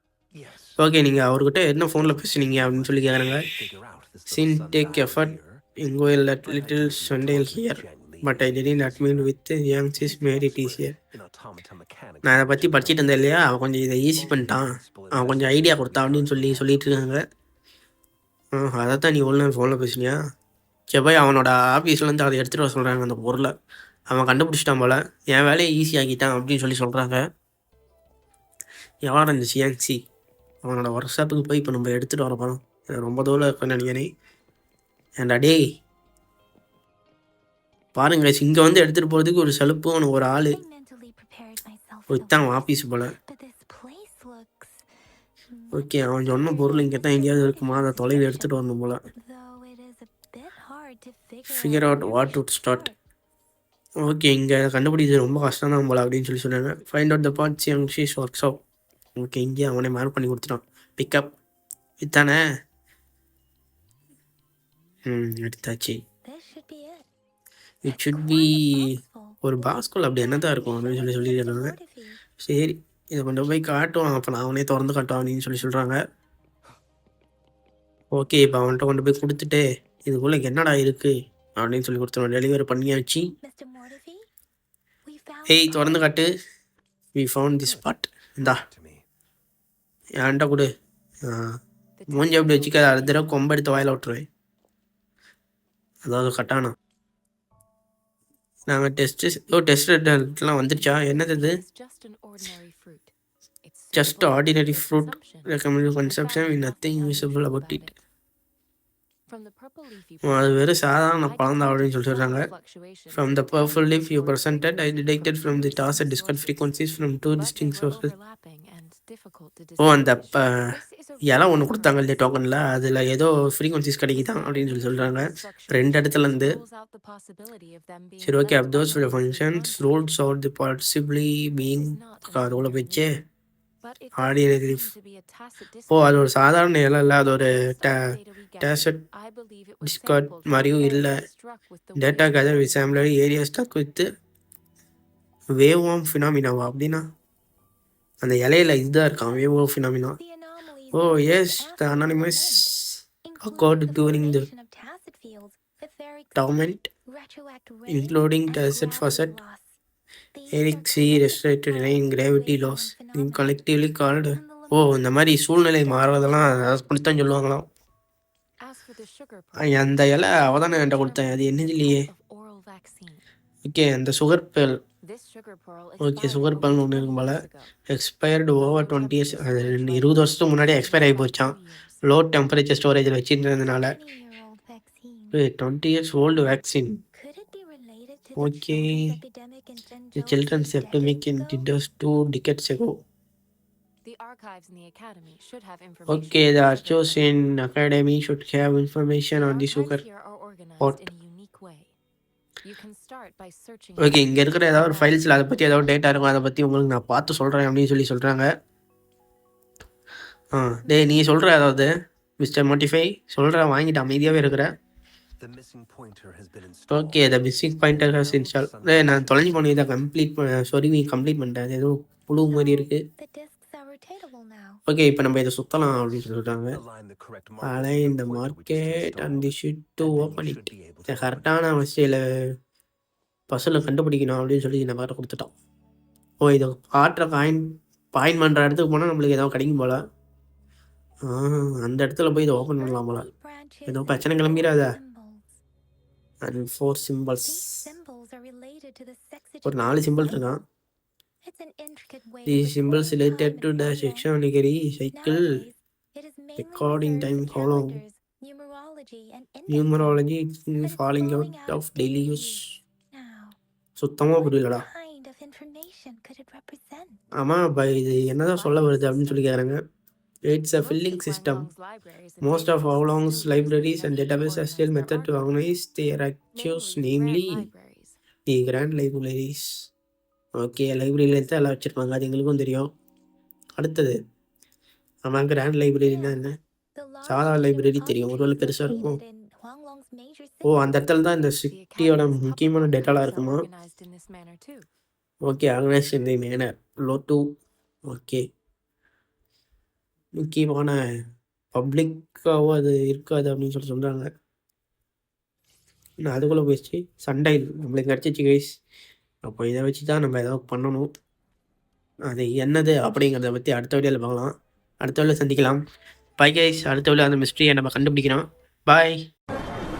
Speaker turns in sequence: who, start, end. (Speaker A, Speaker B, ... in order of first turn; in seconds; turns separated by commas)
Speaker A: 0.3-0.9, Speaker B: 0.8-3.5, Speaker A: 2.0-5.6, Speaker B: 4.3-10.9, Speaker A: 6.4-9.3, Speaker A: 10.0-13.1, Speaker B: 12.2-17.2, Speaker A: 14.1-16.9, Speaker B: 18.5-20.2, Speaker B: 20.9-23.5, Speaker B: 24.1-27.2, Speaker B: 29.0-30.0, Speaker B: 30.6-34.1, Speaker B: 35.2-35.6, Speaker B: 38.0-40.6, Speaker C: 40.4-44.9, Speaker B: 42.1-43.1, Speaker C: 45.5-48.6, Speaker B: 45.7-49.0, Speaker C: 49.1-53.0, Speaker B: 51.5-52.9, Speaker B: 54.0-58.6, Speaker B: 59.1-61.4, Speaker B: 62.0-62.4, Speaker B: 65.1-66.0, Speaker C: 66.2-67.1, Speaker B: 67.8-68.8, Speaker C: 67.9-72.2, Speaker B: 69.4-71.7, Speaker B: 72.4-76.0, Speaker B: 78.1-83.3, Speaker C: 83.4-84.3, Speaker C: 85.0-86.1, Speaker B: 85.5-86.3, Speaker B: 87.2-88.6, Speaker A: 88.4-89.0, Speaker B: 90.2-90.7, Speaker B: 91.2-91.6, Speaker D: 92.0-93.4, Speaker B: 92.1-94.3, Speaker B: 96.0-96.7, Speaker B: 98.7-101.6, Speaker D: 100.7-103.1, Speaker D: 103.6-108.0, Speaker B: 103.9-107.9, Speaker D: 109.3-122.2, Speaker B: 110.2-112.5, Speaker B: 113.1-118.1, Speaker B: 119.8-120.5, Speaker B: 121.2-126.6, Speaker D: 124.1-130.3, Speaker B: 128.2-133.1, Speaker D: 131.6-133.0, Speaker D: 133.8-143.3, Speaker B: 134.2-134.9, Speaker B: 135.9-138.0, Speaker B: 138.6-139.0, Speaker B: 139.8-141.2, Speaker B: 142.0-144.1, Speaker B: 145.5-147.1, Speaker B: 148.2-150.2, Speaker C: 150.2-152.7, Speaker B: 150.9-154.5, Speaker C: 153.2-159.8, Speaker B: 156.3-156.9, Speaker B: 157.9-159.4, Speaker C: 160.3-166.7, Speaker B: 160.5-167.7, Speaker D: 168.6-173.2, Speaker B: 169.6-172.1, Speaker B: 173.6-174.8, Speaker D: 175.0-177.7, Speaker B: 176.0-183.9, Speaker D: 178.6-182.0, Speaker C: 183.5-185.4, Speaker B: 185.3-187.0, Speaker C: 187.1-191.7, Speaker B: 188.4-189.2, Speaker B: 190.2-193.0, Speaker D: 194.0-197.3, Speaker B: 196.1-200.0, Speaker D: 199.3-201.9, Speaker D: 202.6-206.4, Speaker B: 204.0-208.5, Speaker B: 210.5-211.9, Speaker B: 212.4-214.7, Speaker A: 215.4-220.1, Speaker B: 216.9-223.0, Speaker C: 222.5-224.8, Speaker B: 224.9-226.8, Speaker A: 226.7-231.6, Speaker B: 227.6-232.2, Speaker B: 233.5-235.5, Speaker B: 236.4-240.0, Speaker B: 241.3-243.3, Speaker C: 242.5-245.6, Speaker B: 243.8-244.9, Speaker B: 246.4-247.9, Speaker C: 247.4-250.4, Speaker B: 249.6-250.6, Speaker C: 251.4-254.3, Speaker B: 252.4-255.6, Speaker C: 255.1-263.6, Speaker B: 256.6-258.0, Speaker B: 259.7-262.7, Speaker B: 264.0-264.9, Speaker C: 264.2-267.2, Speaker B: 267.4-269.8, Speaker C: 268.6-268.9, Speaker D: 268.9-269.4, Speaker B: 270.5-271.7, Speaker D: 270.8-275.5, Speaker B: 272.4-277.7, Speaker D: 276.5-278.2, Speaker B: 278.5-279.9, Speaker B: 280.6-282.9, Speaker B: 283.8-284.2, Speaker B: 285.2-286.6, Speaker C: 286.0-286.4, Speaker C: 286.9-291.1, Speaker B: 287.2-289.2, Speaker B: 290.6-293.7, Speaker D: 291.7-294.9, Speaker B: 295.4-297.5, Speaker B: 298.1-298.4, Speaker B: 300.4-301.0, Speaker B: 301.7-304.3, Speaker B: 306.2-308.7, Speaker B: 309.4-311.1, Speaker B: 312.3-315.8, Speaker B: 316.4-319.2